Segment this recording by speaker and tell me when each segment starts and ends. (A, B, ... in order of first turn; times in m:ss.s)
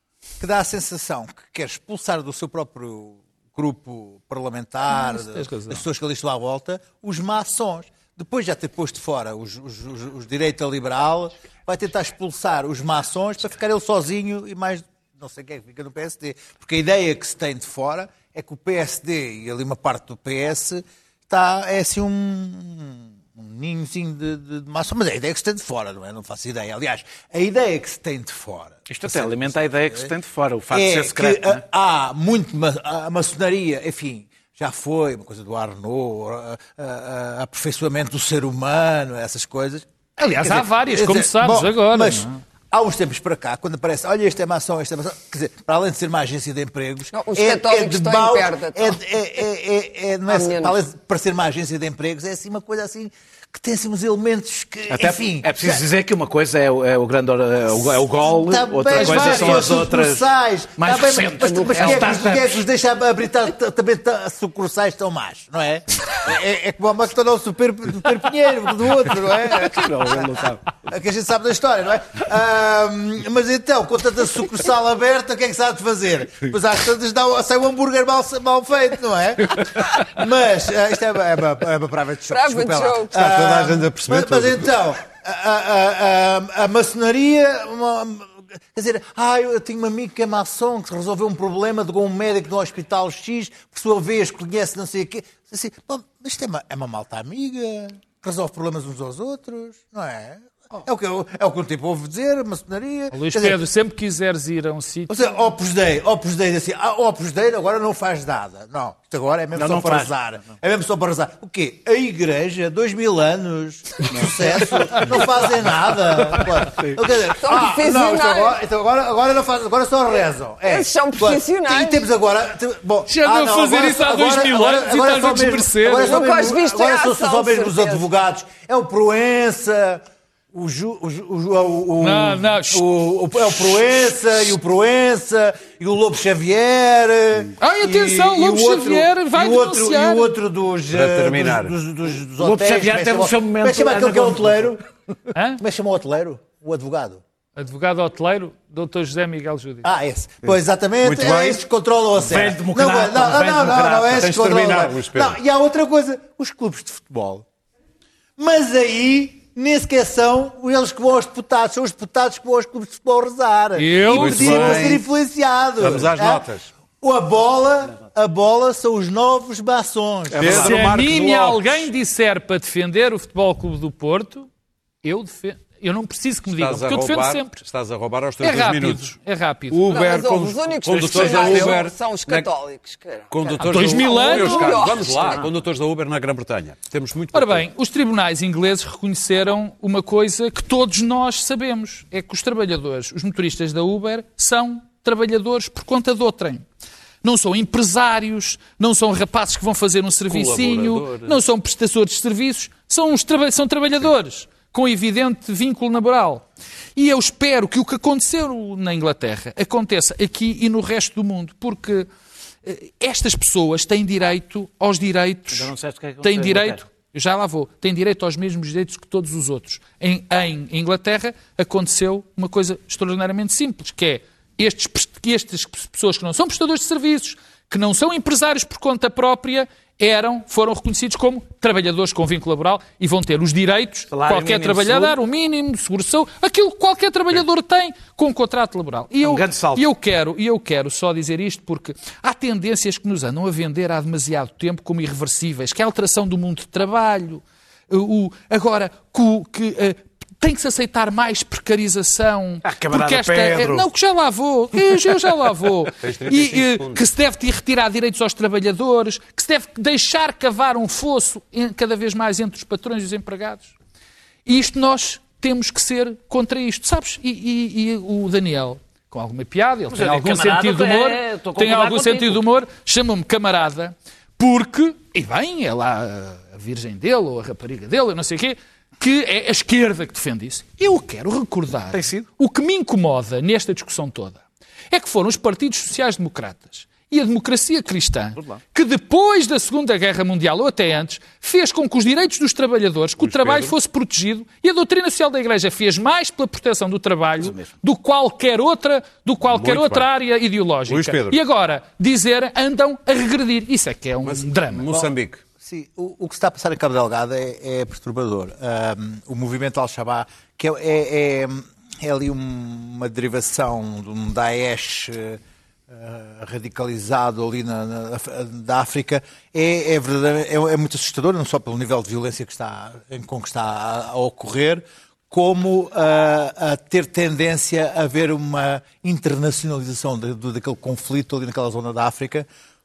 0:00.4-0:30.1 A
0:04.9-0:05.8 B
0:28.9-0:31.6 C
0:30.7-0:55.8 A
0:40.2-0:42.4 B
0:47.1-0:49.0 D
0:50.3-0:50.8 D
0:54.9-1:02.6 C
0:58.2-1:43.6 A
0:59.0-0:59.4 D
1:01.4-1:02.3 D
1:09.6-1:10.8 C
1:22.3-1:23.3 D
1:23.2-1:24.6 E
1:43.1-1:45.2 B
1:45.1-2:24.8 A
1:49.6-1:50.4 C
1:54.1-1:55.2 C
1:56.7-1:57.0 C
1:57.4-1:58.6 D
2:00.6-2:02.1 D
2:03.1-2:06.2 B
2:05.9-2:08.0 D
2:12.0-2:14.0 B
2:17.6-2:20.3 B
2:20.9-2:21.7 E
2:22.4-2:24.8 C
2:25.3-2:25.6 B
2:25.6-2:27.2 A
2:27.6-2:29.9 B
2:29.8-2:37.4 A
2:31.1-2:31.6 E
2:32.2-2:34.3 C
2:34.2-2:35.4 E
2:38.4-2:46.4 A
2:43.8-2:44.9 B
2:44.1-2:45.0 E
2:45.8-2:46.7 E
2:47.0-2:50.6 A
2:50.3-2:50.8 C
2:50.3-2:51.9 E
2:50.6-2:54.5 B
2:55.0-2:57.6 B
2:56.5-2:59.1 E
2:58.4-2:59.8 B
2:59.7-3:02.5 E
2:59.9-3:05.5 D
3:01.1-3:01.7 C
3:03.3-3:07.6 E
3:03.6-3:04.9 B
3:07.3-3:16.6 B
3:17.2-3:32.1 B
3:20.3-3:21.4 E
3:32.6-4:23.7 B
3:35.5-3:36.8 C
3:54.1-3:55.2 C
3:59.2-3:59.9 C
4:12.6-4:13.9 C
4:16.0-4:17.0 E
4:24.4-5:04.8 B
4:29.9-4:32.4 C
4:41.9-4:42.3 C
4:53.2-4:53.7 E
4:57.4-4:57.7 C
4:59.4-5:00.1 E
5:00.9-5:01.4 E
5:04.2-5:05.4 E
5:04.9-5:32.5 A